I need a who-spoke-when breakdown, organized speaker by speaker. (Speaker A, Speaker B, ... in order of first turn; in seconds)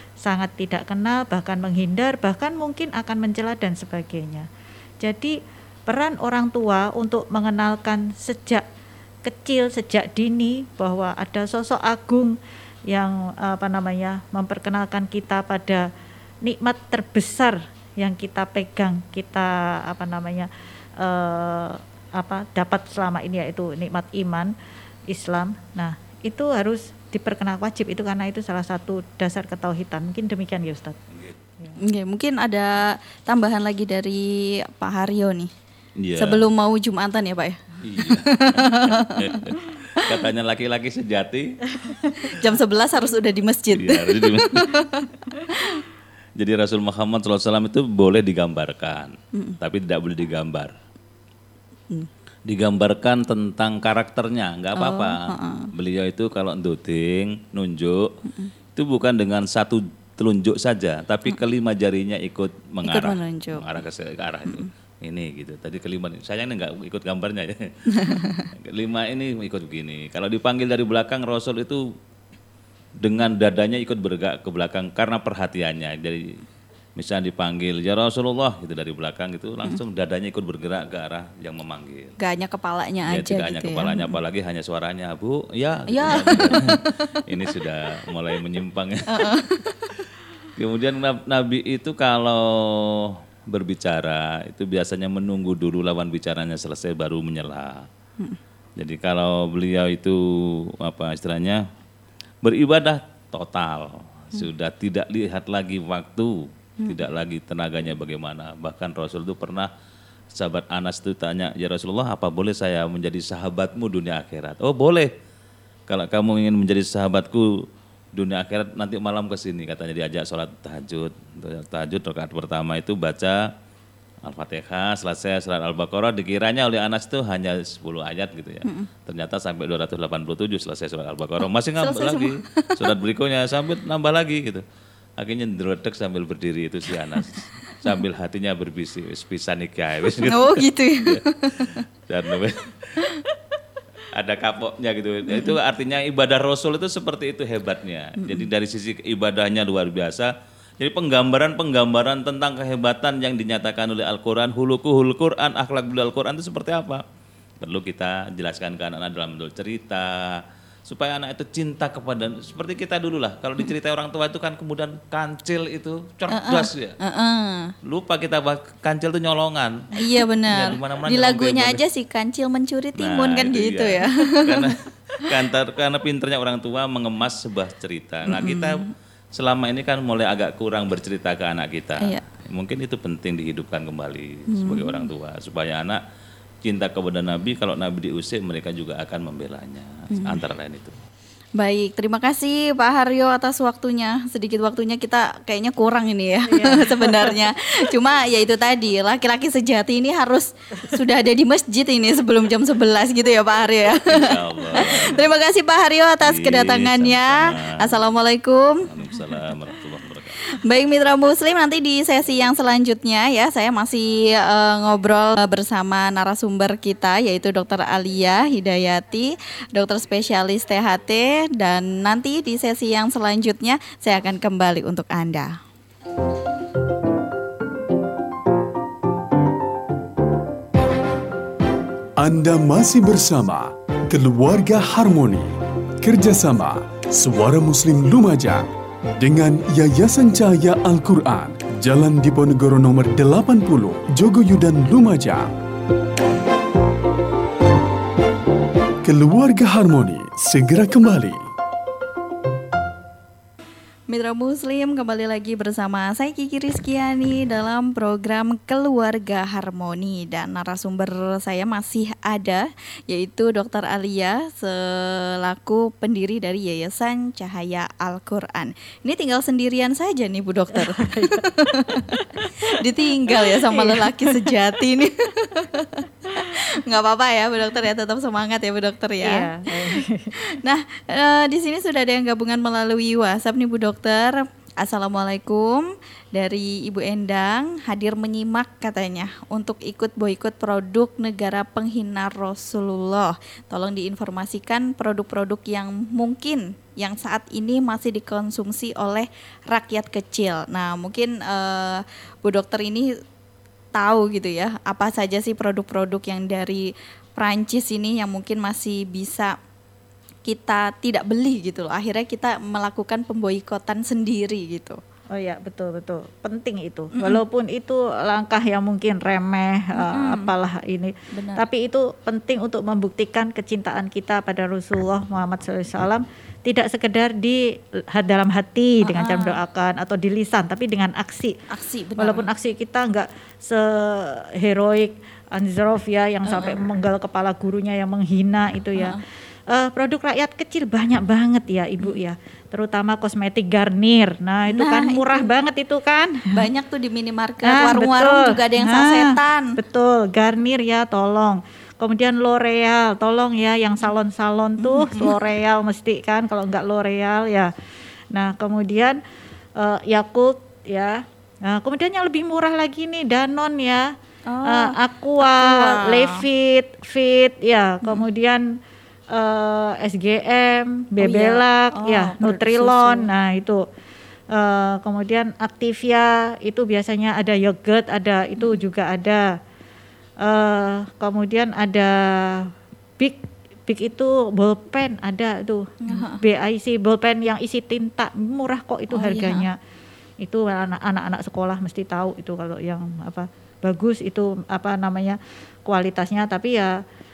Speaker A: 0.2-4.5, 5.0-5.3, 5.9-8.6, 9.2-12.4, 12.9-15.9, 16.4-24.5, 25.1-31.0, 41.8-42.1, 196.5-197.3, 270.9-271.4, 272.1-272.5, 273.3-274.4, 279.2-280.3, 315.3-331.5, 332.2-339.2, 339.7-346.6, 347.6-357.7, 358.3-359.2, 359.8-364.1, 364.6-368.8, 369.3-373.8, 374.5-379.4, 380.4-389.8, 390.4-397.0
Speaker B: 31.8-35.5, 36.2-40.3, 41.9-45.8, 54.8-55.7, 58.2-58.5, 62.9-63.6, 67.9-68.5, 82.2-84.2, 85.9-87.2, 89.1-90.0, 131.8-132.9, 140.2-141.8, 145.3-145.6, 148.2-148.5, 166.3-167.7, 169.9-174.7, 178.2-178.9, 184.5-185.1, 190.1-190.4, 191.6-208.8, 210.4-225.6, 254.1-272.1, 272.7-303.1, 303.9-309.5, 310.4-315.0, 319.9-320.5, 321.3-321.6, 329.0-329.6, 331.7-332.5, 336.5-336.8, 338.9-339.2, 344.7-345.5, 346.5-349.7, 354.8-355.4, 364.5-366.4, 371.2-373.3, 386.0-386.4, 389.1-389.6
Speaker C: 36.0-36.5, 37.8-41.6, 43.7-44.7, 46.4-50.7, 52.5-58.1, 58.8-71.9, 73.0-76.4, 77.0-82.1, 83.1-89.4, 90.5-97.9, 98.8-101.6, 102.4-109.7, 110.3-115.1, 115.9-123.5, 124.2-134.6, 135.2-143.1, 144.1-157.0, 157.6-166.9, 167.8-171.8, 173.0-186.0, 186.6-190.9, 204.0-205.3, 206.2-208.1, 208.8-210.5
Speaker D: 232.2-238.7, 239.2-245.5, 249.0-251.4